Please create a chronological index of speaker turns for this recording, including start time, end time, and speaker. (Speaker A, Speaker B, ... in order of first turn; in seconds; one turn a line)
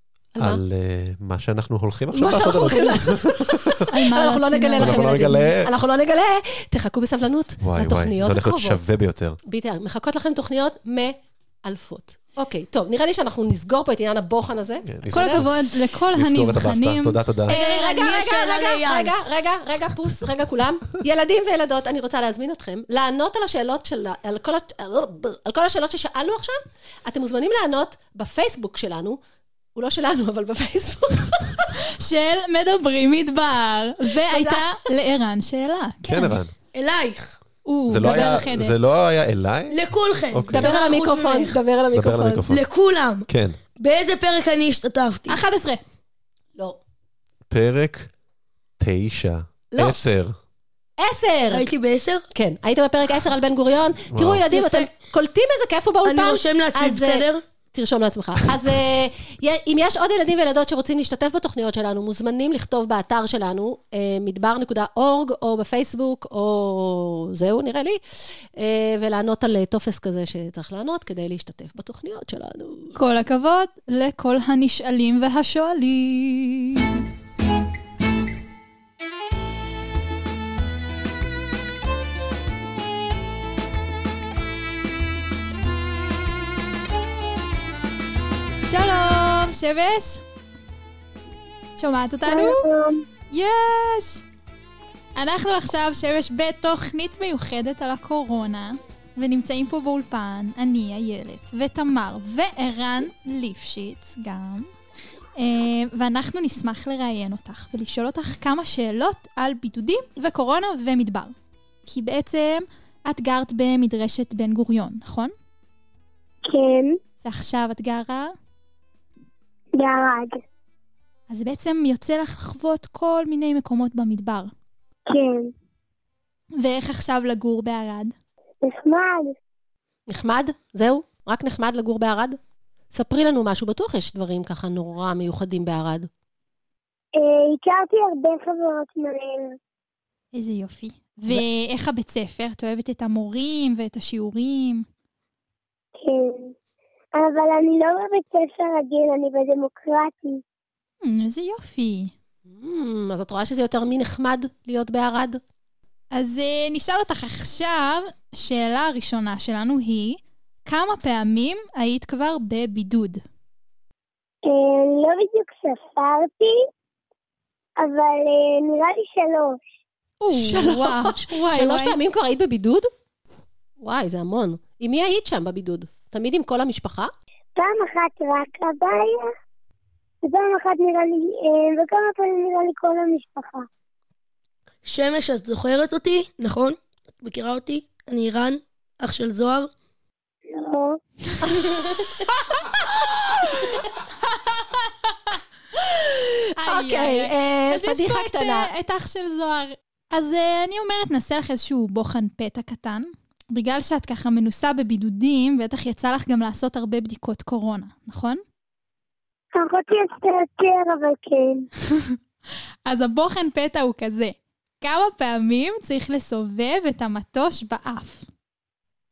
Speaker A: 0.3-0.6
Speaker B: 0.4-3.9
Speaker A: 2.1-8.8
Speaker C: 3.9-5.5
Speaker B: 4.8-5.7
Speaker B: 7.6-9.4
Speaker A: 9.4-15.5
Speaker B: 14.9-17.6
Speaker C: 15.1-17.2
Speaker D: 17.5-19.1
Speaker A: 17.5-29.2
Speaker A: 29.8-31.7
Speaker C: 32.0-36.4
Speaker A: 34.3-34.6
Speaker B: 36.1-36.5
Speaker D: 36.7-37.4
Speaker C: 37.7-38.8
Speaker B: 37.9-39.8
Speaker D: 39.7-41.6
Speaker B: 40.3-40.7
Speaker A: 40.5-42.5
Speaker B: 41.9-42.6
Speaker D: 42.5-43.3
Speaker B: 43.3-43.6
Speaker D: 43.8-45.4
Speaker C: 45.3-45.8
Speaker B: 47.5-48.1
Speaker B: 48.8-50.4
Speaker A: 51.0-51.7
Speaker D: 51.5-52.2
Speaker A: 52.3-68.0
Speaker B: 54.1-54.5
Speaker D: 54.5-54.9
Speaker D: 56.0-57.4
Speaker A: 68.6-73.0
Speaker C: 73.0-76.9
Speaker C: 88.6-90.2
Speaker C: 91.8-92.7
Speaker E: 92.3-93.0
Speaker C: 93.3-94.2
Speaker C: 95.2-104.7
Speaker C: 105.4-111.3
Speaker C: 111.9-115.3
Speaker E: 116.5-117.0
Speaker C: 117.2-118.3
Speaker E: 119.8-120.4
Speaker C: 121.3-124.5
Speaker E: 125.1-125.4
Speaker C: 126.6-128.1
Speaker E: 128.6-129.3
Speaker A: 130.1-132.4
Speaker A: 132.9-136.1
Speaker E: 137.2-139.6
Speaker C: 140.3-144.8
Speaker E: 146.0-146.5
Speaker E: 147.2-150.4
Speaker C: 151.0-152.1
Speaker A: 152.5-155.4
Speaker C: 156.1-163.2
Speaker E: 164.4-166.5
Speaker E: 167.8-169.6
Speaker C: 170.2-172.0
Speaker A: 170.3-172.9
Speaker A: 173.8-177.1
Speaker E: 177.6-179.2
Speaker E: 180.2-183.7
Speaker D: 184.8-189.7
Speaker E: 190.5-191.0
Speaker A: 191.4-193.1
Speaker A: 195.8-198.7
Speaker C: 196.6-208.4
Speaker E: 209.6-211.7
Speaker C: 212.9-218.3